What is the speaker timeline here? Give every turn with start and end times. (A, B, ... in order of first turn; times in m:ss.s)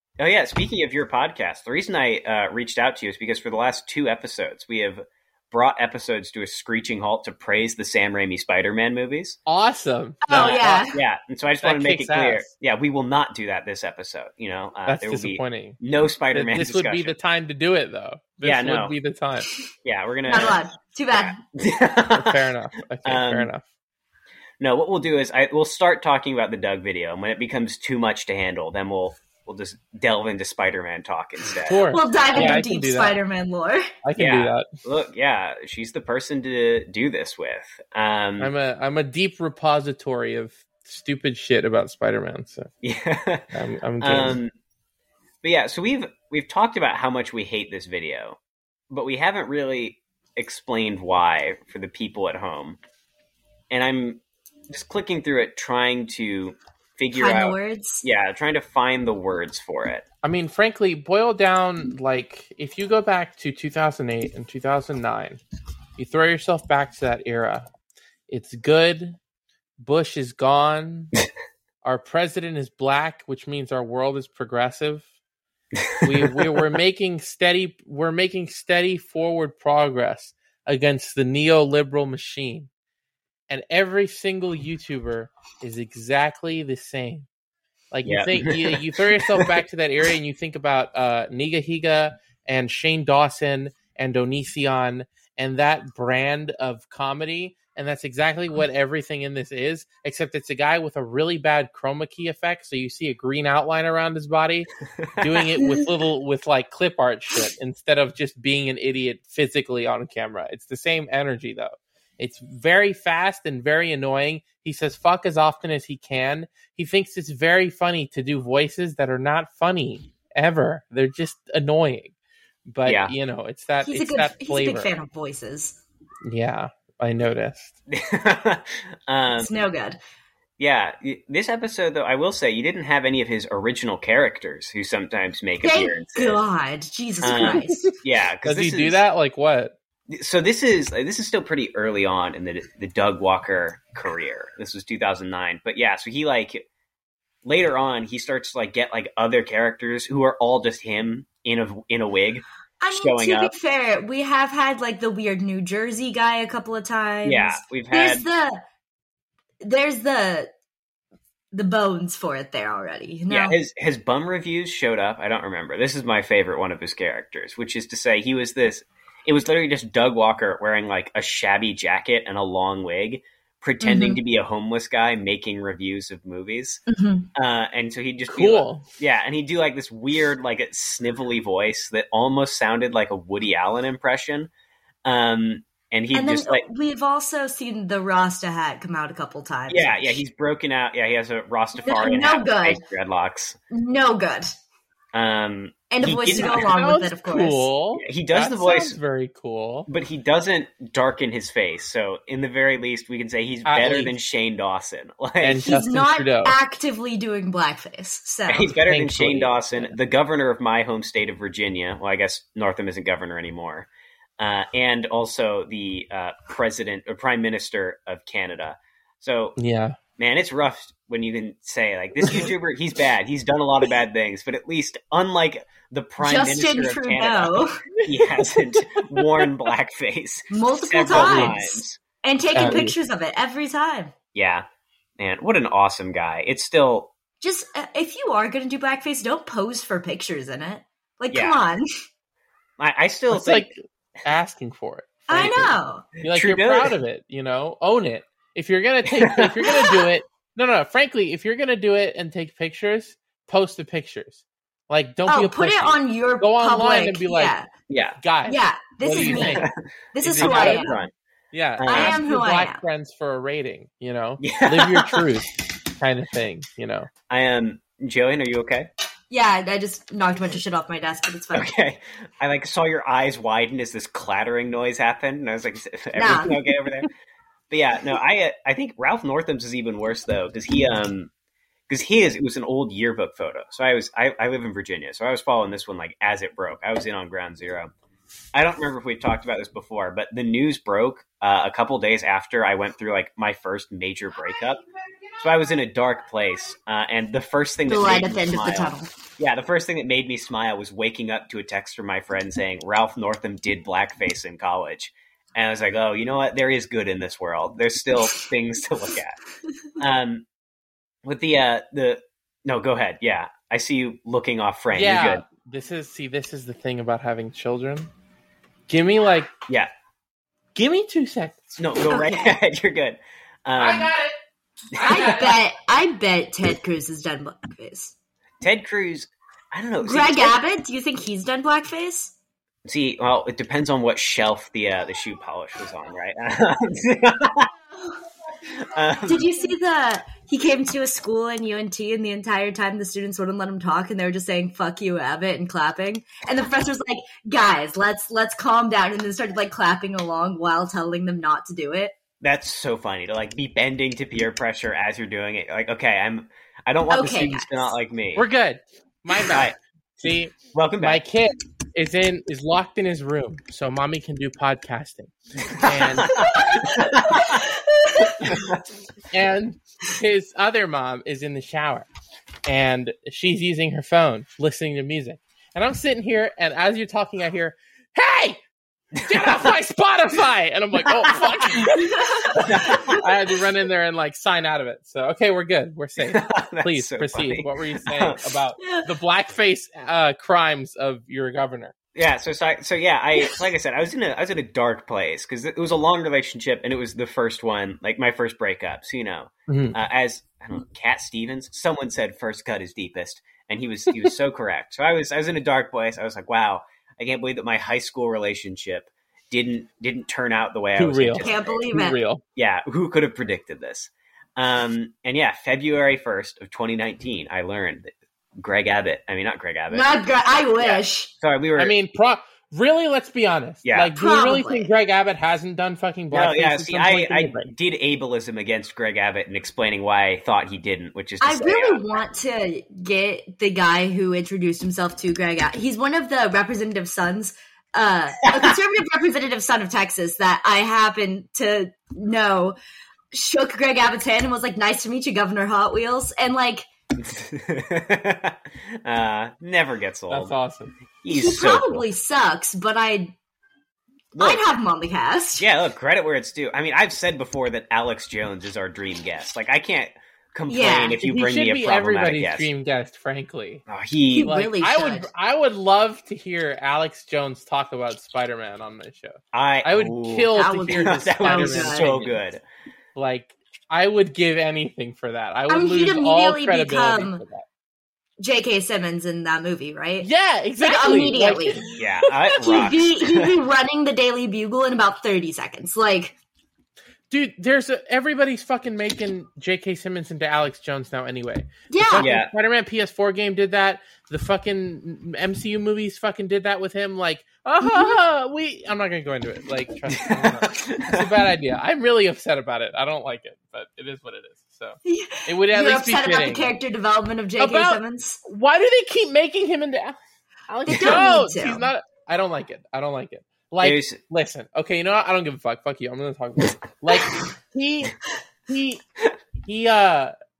0:00.2-0:09.4 A
0:09.5-0:10.8 B
0:10.2-0:11.0 C
0:10.3-0:17.1 A
0:11.6-0:12.5 B
0:14.9-0:15.8 B
0:16.3-0:19.5 B
0:18.4-0:18.9 A
0:19.8-0:20.6 A
0:20.3-0:21.4 C
0:21.1-0:22.4 A
0:22.1-0:23.6 B
0:23.0-0:23.5 A
0:24.6-0:32.6 A
0:31.6-0:33.2 B
0:31.9-0:33.9 C
0:34.0-0:34.7 B
0:34.2-0:38.5 A
0:38.4-0:42.7 B
0:42.8-0:44.5 A
0:43.5-0:44.4 B
0:45.4-0:48.4 A
0:48.9-0:52.8 A
0:53.7-1:00.0 A
0:57.1-0:58.0 C
1:00.2-1:05.4 B
1:06.0-1:07.6 B
1:08.3-1:09.2 B
1:09.8-1:11.2 B
1:11.8-1:15.0 B
1:15.7-1:16.5 A
1:16.0-1:22.7 B
1:23.5-1:27.3 B
1:27.9-2:02.1 B
1:28.0-1:29.6 A
2:02.7-2:04.9 B
2:02.8-2:03.1 A
2:03.8-2:05.8 C
2:06.2-2:07.7 B
2:07.9-2:09.5 A
2:09.3-2:10.0 C
2:10.6-2:16.4 A
2:15.6-2:17.9 C
2:17.2-2:19.0 A
2:17.4-2:17.9 B
2:18.4-2:19.7 B
2:20.1-2:26.6 A
2:27.4-2:33.5 A
2:32.8-2:38.6 C
2:37.2-2:38.2 A
2:39.6-2:40.5 C
2:41.5-2:43.6 C
2:43.3-2:56.8 A
2:53.8-2:54.2 C
2:56.9-2:57.3 C
2:57.3-3:04.5 A
2:58.3-2:58.8 B
3:05.0-3:06.6 A
3:06.1-3:10.2 C
3:09.7-3:13.6 A
3:11.8-3:12.8 C
3:13.7-3:14.5 C
3:15.1-3:16.7 A
3:15.9-3:17.7 C
3:16.3-3:19.9 B
3:18.0-3:19.0 A
3:19.9-3:25.7 A
3:23.6-3:24.1 B
3:25.4-3:26.6 B
3:25.6-3:28.7 C
3:28.5-3:33.9 A
3:28.8-3:29.9 B
3:34.4-3:39.6 A
3:39.6-3:40.0 B
3:40.2-3:52.0 A
3:46.2-3:47.8 C
3:48.0-3:49.5 B
3:50.5-3:54.1 C
3:51.1-3:51.6 B
3:52.5-3:52.9 B
3:54.3-3:54.6 A
3:55.2-3:57.1 A
3:57.4-4:01.9 C
4:01.3-4:01.6 A
4:02.8-4:03.7 A
4:03.3-4:17.5 B
4:05.3-4:06.0 C
4:06.2-4:07.0 A
4:09.0-4:09.7 A
4:15.3-4:17.7 C
4:17.9-4:18.2 A
4:18.2-4:19.7 B
4:18.5-4:21.0 C
4:19.2-4:19.7 A
4:20.2-4:20.9 B
4:20.3-4:21.1 A
4:21.5-4:27.1 B
4:21.8-4:22.2 A
4:21.8-4:22.8 C
4:24.4-4:25.2 A
4:27.3-4:28.9 A
4:29.3-4:31.7 C
4:31.5-4:37.1 A
4:36.1-4:36.5 C
4:37.7-4:41.3 A
4:41.9-4:47.9 A
4:48.5-4:54.8 A
4:55.4-5:09.4 A
4:57.9-4:59.1 C
5:10.0-5:10.4 A
5:11.2-5:15.4 A
5:14.9-5:18.1 B
5:18.9-5:19.5 B
5:20.7-5:21.8 B
5:21.8-5:24.1 A
5:22.1-5:22.5 C
5:23.8-5:24.3 B
5:24.9-5:25.6 B
5:25.0-5:25.3 A
5:25.0-5:28.1 C
5:28.6-5:30.6 A
5:30.0-5:32.3 C
5:32.8-5:37.7 A
5:38.7-5:39.5 A
5:39.2-5:52.1 C
5:52.4-5:58.5 A
5:57.1-5:57.9 C
5:58.4-6:06.8 B
5:59.4-5:59.8 A
6:00.6-6:01.2 A
6:05.6-6:07.6 A
6:06.4-6:08.4 C
6:08.4-6:08.8 A
6:09.3-6:12.1 B
6:12.6-6:18.6 B
6:19.1-6:19.5 A
6:19.2-6:31.9 B
6:21.0-6:21.9 A
6:22.0-6:23.0 C
6:22.6-6:23.3 A
6:26.2-6:28.4 A
6:28.8-6:29.1 C
6:32.1-6:51.8 A
6:39.7-6:40.0 B
6:51.0-6:52.4 B
6:51.4-6:52.2 C
6:52.6-7:00.1 A
6:59.9-7:01.3 C
7:00.8-7:01.9 A
7:01.8-7:07.7 B
7:03.8-7:04.1 A
7:04.1-7:04.9 C
7:06.3-7:12.2 A
7:11.4-7:22.8 C
7:23.3-7:26.9 C
7:27.2-7:30.5 A
7:30.3-7:30.9 B
7:31.2-7:32.0 A
7:31.3-7:33.3 C
7:34.3-7:34.6 A
7:34.4-7:35.7 C
7:35.6-7:42.7 A
7:40.7-7:41.2 C
7:41.2-7:43.8 B
7:43.9-7:44.5 A
7:44.3-7:45.3 C
7:44.4-7:52.4 B
7:49.5-7:52.6 A
7:50.5-7:52.1 C
7:53.2-7:57.6 B
7:55.7-7:57.4 C
7:58.4-8:00.3 C
8:00.2-8:02.0 B
8:00.8-8:01.8 C
8:02.0-8:03.5 A
8:02.5-8:06.4 C
8:07.3-8:26.8 B
8:11.9-8:12.3 C
8:12.2-8:12.5 A
8:17.8-8:18.2 C
8:20.1-8:21.3 A
8:25.0-8:28.4 C
8:27.6-8:30.2 B
8:30.7-8:39.0 B
8:30.9-8:31.9 C
8:33.8-8:34.2 A
8:39.6-8:40.3 B